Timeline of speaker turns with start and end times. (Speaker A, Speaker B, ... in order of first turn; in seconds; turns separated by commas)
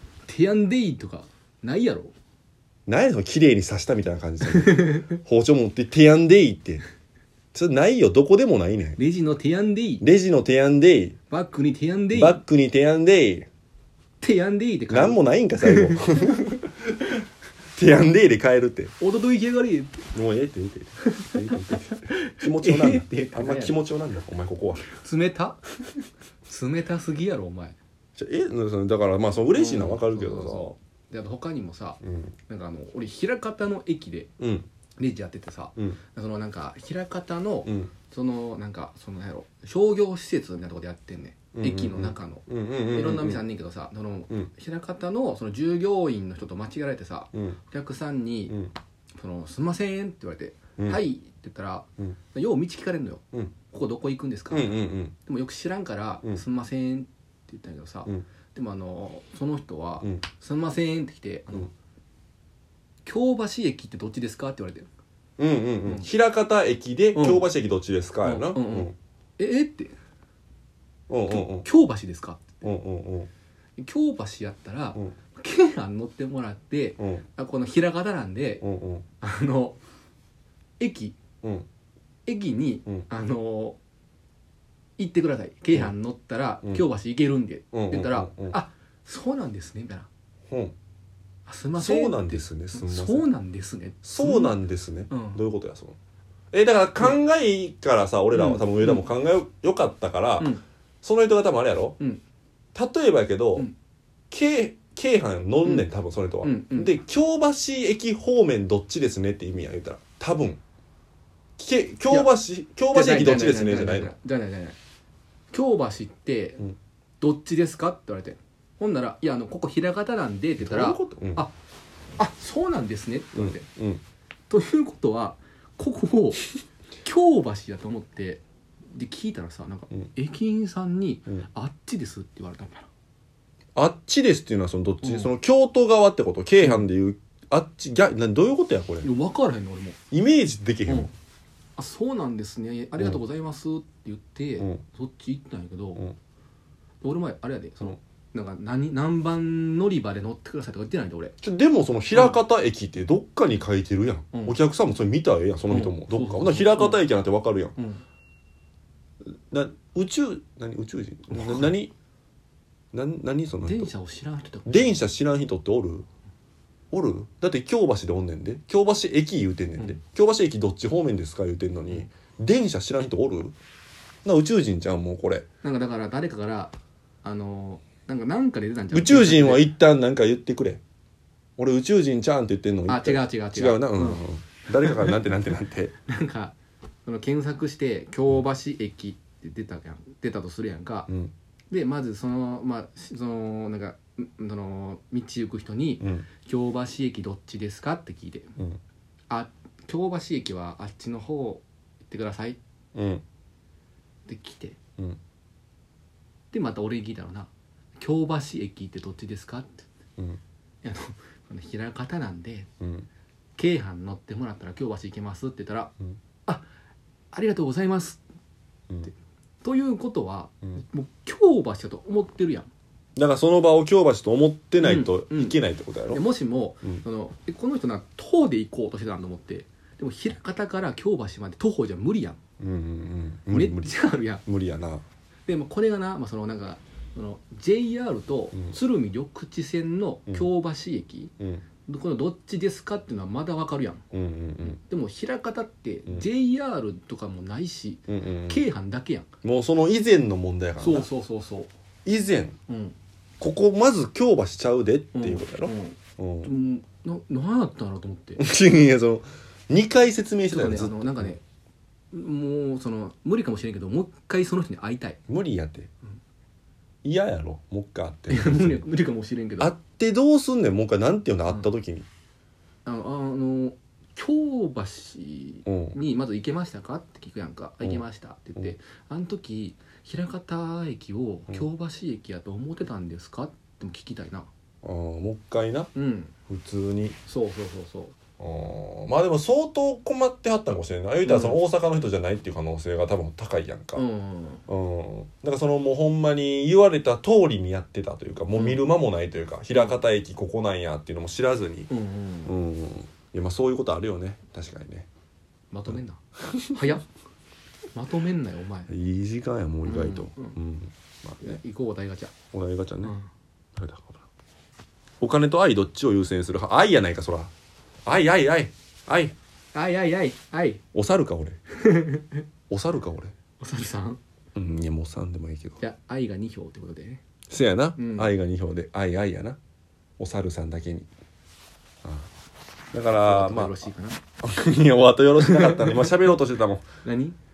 Speaker A: 0.3-2.1, Speaker B: 2.9-6.8, Speaker A: 4.5-5.1, Speaker B: 7.5-9.0, Speaker A: 9.0-10.0, Speaker B: 10.0-11.2, Speaker A: 11.3-12.4, Speaker B: 12.1-13.5, Speaker A: 14.2-16.4, Speaker B: 14.9-17.2, Speaker B: 17.8-18.9, Speaker A: 19.0-20.1, Speaker B: 20.1-24.9, Speaker A: 21.0-23.8, Speaker A: 24.9-25.6, Speaker A: 26.5-27.8, Speaker B: 28.2-30.7, Speaker A: 29.5-34.3, Speaker B: 32.0-32.3, Speaker B: 34.4-34.7, Speaker A: 35.0-48.6, Speaker B: 37.7-37.9, Speaker B: 41.5-43.4, Speaker B: 47.3-47.6, Speaker A: 49.2-61.7, Speaker B: 50.8-51.0, Speaker B: 54.5-55.1, Speaker A: 63.1-64.9, Speaker B: 65.4-68.9, Speaker A: 67.1-67.5, Speaker A: 68.2-70.0, Speaker B: 71.1-71.7, Speaker A: 71.3-72.7, Speaker B: 72.6-73.3, Speaker A: 73.8-78.6, Speaker B: 77.0-77.2, Speaker B: 78.6-79.0, Speaker A: 79.2-79.8, Speaker A: 80.8-81.2, Speaker A: 82.3-83.8, Speaker A: 85.0-90.1, Speaker B: 87.7-88.6, Speaker A: 91.5-94.6, Speaker B: 91.8-93.3, Speaker B: 94.0-96.0, Speaker A: 95.1-95.4, Speaker B: 96.5-102.0, Speaker A: 98.3-99.0, Speaker B: 102.8-103.7, Speaker B: 104.3-110.6, Speaker A: 106.4-106.9, Speaker B: 111.6-114.1, Speaker A: 112.9-114.8, Speaker A: 115.5-116.6, Speaker A: 117.2-121.5, Speaker B: 120.6-121.5, Speaker A: 122.2-123.7, Speaker B: 123.3-124.0, Speaker A: 124.5-126.5, Speaker A: 127.0-132.9, Speaker B: 133.8-139.1, Speaker A: 135.0-135.3, Speaker A: 139.0-140.0, Speaker B: 140.1-141.1, Speaker A: 141.8-146.1, Speaker A: 147.0-151.3, Speaker B: 151.4-157.8, Speaker A: 152.1-152.4, Speaker A: 154.3-154.6, Speaker A: 155.7-157.0, Speaker B: 159.5-161.9, Speaker A: 161.3-161.7, Speaker B: 162.9-163.9, Speaker A: 163.6-165.1, Speaker B: 164.7-166.1, Speaker B: 166.9-173.6, Speaker B: 174.2-175.5, Speaker A: 175.6-179.7, Speaker B: 178.9-180.8, Speaker B: 181.6-185.9, Speaker A: 182.9-184.2, Speaker A: 184.8-185.1, Speaker A: 186.1-191.1, Speaker A: 191.7-198.5, Speaker B: 196.0-196.3, Speaker A: 199.3-202.6, Speaker B: 202.9-203.2, Speaker A: 204.3-204.8, Speaker A: 206.5-209.9, Speaker A: 210.8-212.7, Speaker B: 212.8-213.1, Speaker A: 213.6-215.9, Speaker A: 217.3-218.2, Speaker A: 219.6-222.7, Speaker B: 223.2-226.2, Speaker A: 224.8-225.6, Speaker A: 226.1-232.4, Speaker B: 232.6-235.0, Speaker A: 233.5-234.4, Speaker A: 235.5-241.3, Speaker A: 241.9-244.0, Speaker B: 244.1-244.8, Speaker A: 244.6-249.3, Speaker B: 248.1-248.6, Speaker B: 249.4-251.1, Speaker A: 250.8-251.7, Speaker B: 252.1-252.6, Speaker A: 252.7-253.0, Speaker B: 253.4-256.5, Speaker A: 255.1-258.4, Speaker B: 258.4-261.4, Speaker A: 260.5-261.4, Speaker A: 262.1-265.2, Speaker B: 265.3-265.9, Speaker B: 267.0-268.8, Speaker A: 268.3-269.7, Speaker B: 269.6-272.1, Speaker A: 272.9-284.5, Speaker B: 275.7-276.0, Speaker B: 284.8-285.9, Speaker A: 285.9-286.3, Speaker B: 286.5-287.2, Speaker A: 287.3-288.2, Speaker B: 288.4-294.0, Speaker A: 291.2-291.6, Speaker A: 294.0-294.6, Speaker B: 294.7-301.9, Speaker A: 298.6-298.8, Speaker A: 299.7-300.0, Speaker A: 301.9-302.6, Speaker B: 302.5-305.1, Speaker A: 305.7-306.2, Speaker B: 305.9-306.9, Speaker A: 306.7-307.1, Speaker A: 307.9-308.9, Speaker B: 308.9-311.6, Speaker A: 309.9-310.6, Speaker A: 311.4-312.3, Speaker B: 312.5-313.2, Speaker A: 313.0-313.3, Speaker B: 313.8-314.2, Speaker B: 315.2-317.5, Speaker B: 318.1-319.4, Speaker A: 319.7-320.8, Speaker B: 320.9-321.6, Speaker A: 321.7-322.4, Speaker B: 322.7-323.3, Speaker A: 323.6-324.2, Speaker B: 324.6-325.8, Speaker A: 325.8-327.2, Speaker B: 327.5-329.6, Speaker A: 328.0-328.3, Speaker B: 330.2-331.1, Speaker B: 332.0-332.3, Speaker B: 332.9-333.8, Speaker A: 333.2-334.2, Speaker B: 334.4-336.9, Speaker A: 335.4-336.4, Speaker A: 337.0-337.4